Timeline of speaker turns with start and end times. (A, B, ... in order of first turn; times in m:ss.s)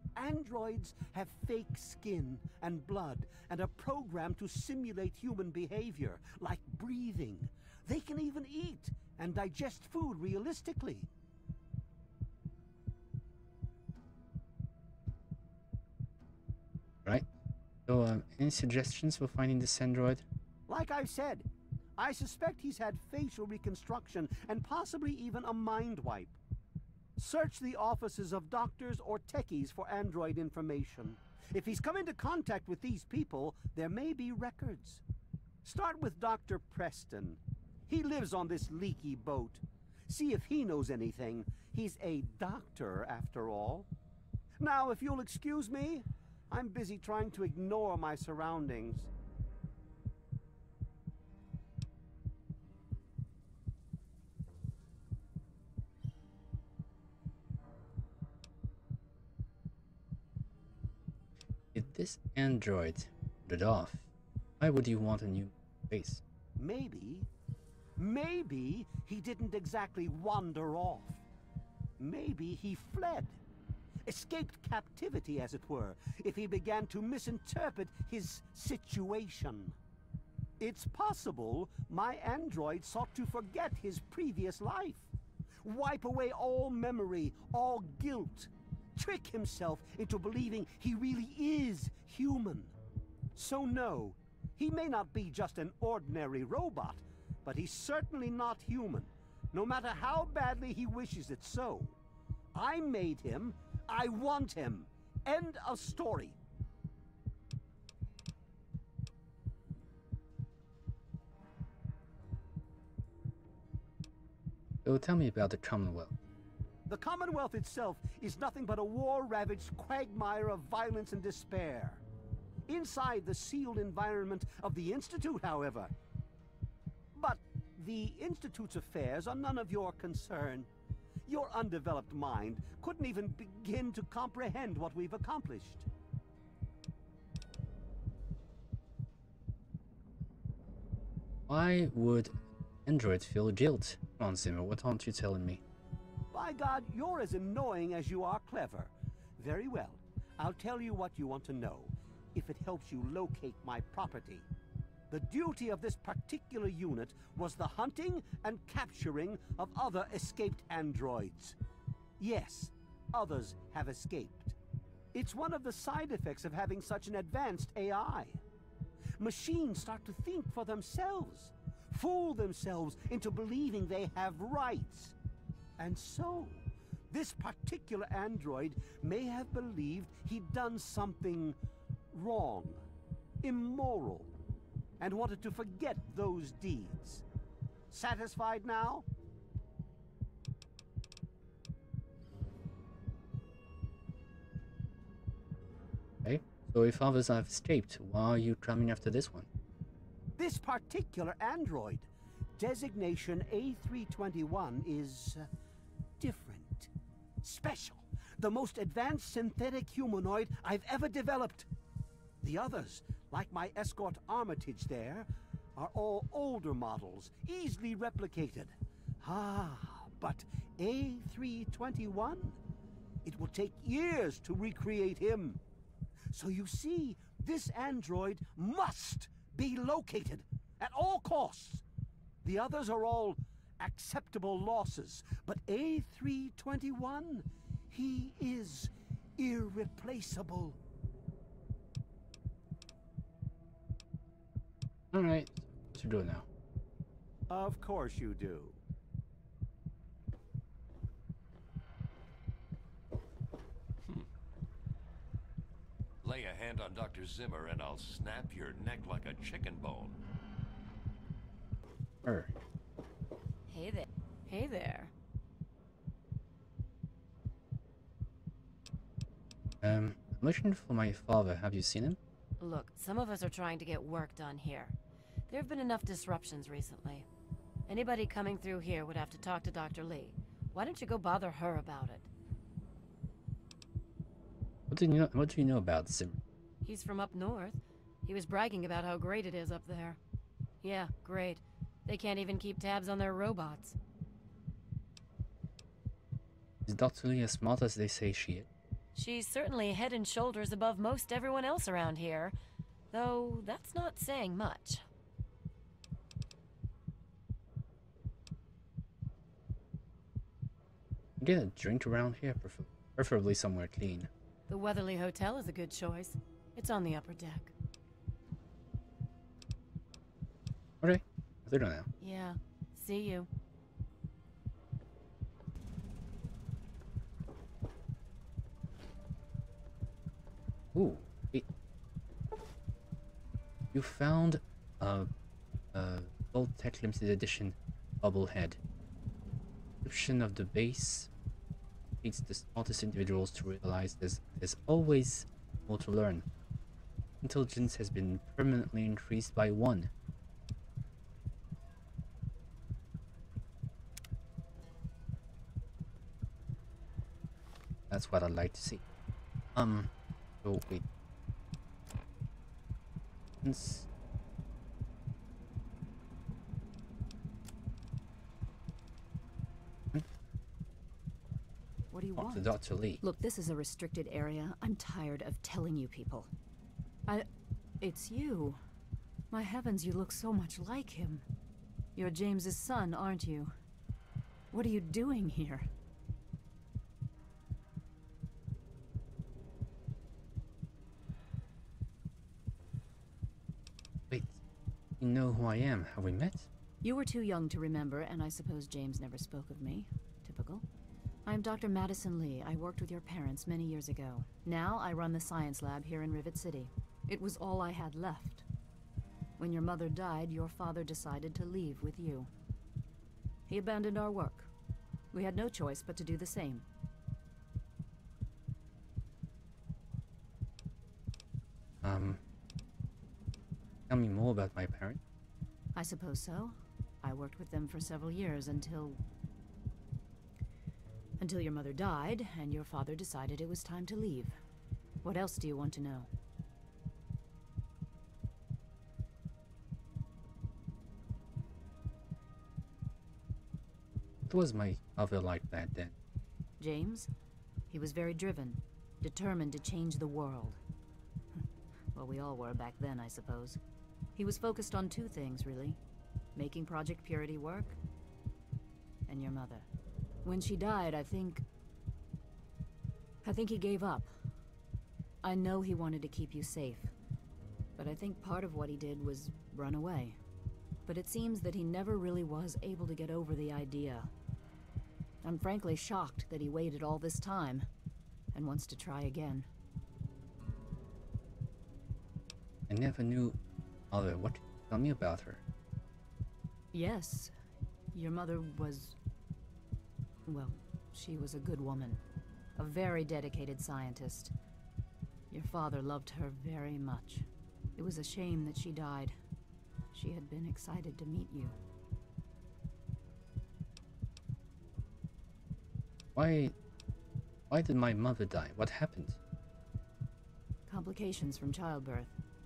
0:00.2-0:11.1 A
0:17.9-0:20.2 B
0:20.7-0:21.5 A
0:22.0-0:26.4 A
0:27.2-0:35.0 A
0:35.6-0:43.9 A
0:44.6-0:49.1 A
1:01.7-1:04.1 B
1:04.6-1:06.2 B
1:06.6-1:07.3 A
1:08.0-1:11.2 A
1:12.0-1:13.4 A
1:14.1-1:19.8 A
1:20.6-1:25.1 A
1:25.6-1:32.7 A
1:33.4-1:42.0 A
1:42.5-1:46.4 A
1:54.8-1:56.2 B
1:56.9-2:02.0 A
2:02.7-2:05.9 A
2:07.2-2:10.7 A
2:11.3-2:15.9 A
2:21.5-2:22.4 B
2:22.9-2:25.6 B
2:26.3-2:34.4 A
2:35.1-2:41.6 A
2:42.2-2:44.6 A
2:45.1-2:48.4 A
2:49.2-2:55.1 A
2:55.8-3:01.6 A
3:02.1-3:02.8 A
3:03.4-3:04.3 A
3:05.0-3:07.2 A
3:07.9-3:09.0 A
3:16.2-3:19.5 B
3:20.4-3:25.5 A
3:26.2-3:26.9 A
3:27.4-3:31.7 A
3:32.4-3:42.6 A
3:43.2-3:45.6 A
3:46.3-3:51.8 A
3:52.4-4:00.8 A
4:05.1-4:06.5 B
4:07.5-4:08.8 A
4:16.2-4:20.2 C
4:22.2-4:22.5 B
4:23.7-4:25.1 D
4:29.8-4:32.2 B
4:32.6-4:34.9 D
4:35.5-4:37.3 D
4:37.9-4:42.3 D
4:44.9-4:46.4 B
4:46.8-4:50.2 D
4:50.8-4:54.0 D
4:56.9-4:58.7 B
4:59.2-5:02.5 D
5:03.1-5:05.0 D
5:11.4-5:14.3 B
5:14.7-5:17.7 D
5:21.0-5:22.1 B
5:22.2-5:23.5 D
5:31.0-5:31.7 B
5:33.9-5:35.3 B
5:35.9-5:38.8 B
5:40.0-5:41.3 B
5:42.2-5:46.4 B
5:47.4-5:50.1 B
5:58.1-5:59.0 B
5:59.8-6:00.1 B
6:00.6-6:01.0 B
6:03.6-6:04.1 B
6:12.1-6:12.7 E
6:12.4-6:13.2 B
6:13.2-6:16.5 E
6:18.0-6:18.8 E
6:19.5-6:21.4 E
6:22.2-6:23.7 E
6:24.7-6:25.9 E
6:34.3-6:34.6 B
6:35.2-6:36.7 B
6:37.0-6:40.8 E
6:41.5-6:48.6 E
6:49.6-6:52.5 E
6:53.7-6:54.7 E
6:55.3-6:56.8 E
7:02.0-7:02.4 B
7:04.1-7:05.2 B
7:06.0-7:09.2 E
7:11.4-7:14.6 E
7:15.2-7:16.3 E
7:24.5-7:26.1 B
7:26.8-7:27.3 E
7:27.9-7:30.8 E
7:32.2-7:33.8 E
7:34.4-7:36.0 E
7:36.6-7:38.0 E
7:39.3-7:39.9 E
7:40.4-7:41.6 E
7:43.4-7:44.3 E
7:45.4-7:47.1 E
7:48.0-7:50.4 E
7:51.1-7:54.3 E
7:55.4-7:57.9 E
7:58.5-7:59.7 E
8:02.9-8:03.6 B
8:04.1-8:05.6 B
8:06.9-8:07.5 E
8:08.1-8:09.2 E
8:10.5-8:12.2 E
8:12.8-8:14.5 E
8:15.5-8:19.4 E
8:20.1-8:21.8 E
8:26.4-8:26.7 B
8:27.7-8:29.4 B
8:30.9-8:32.4 E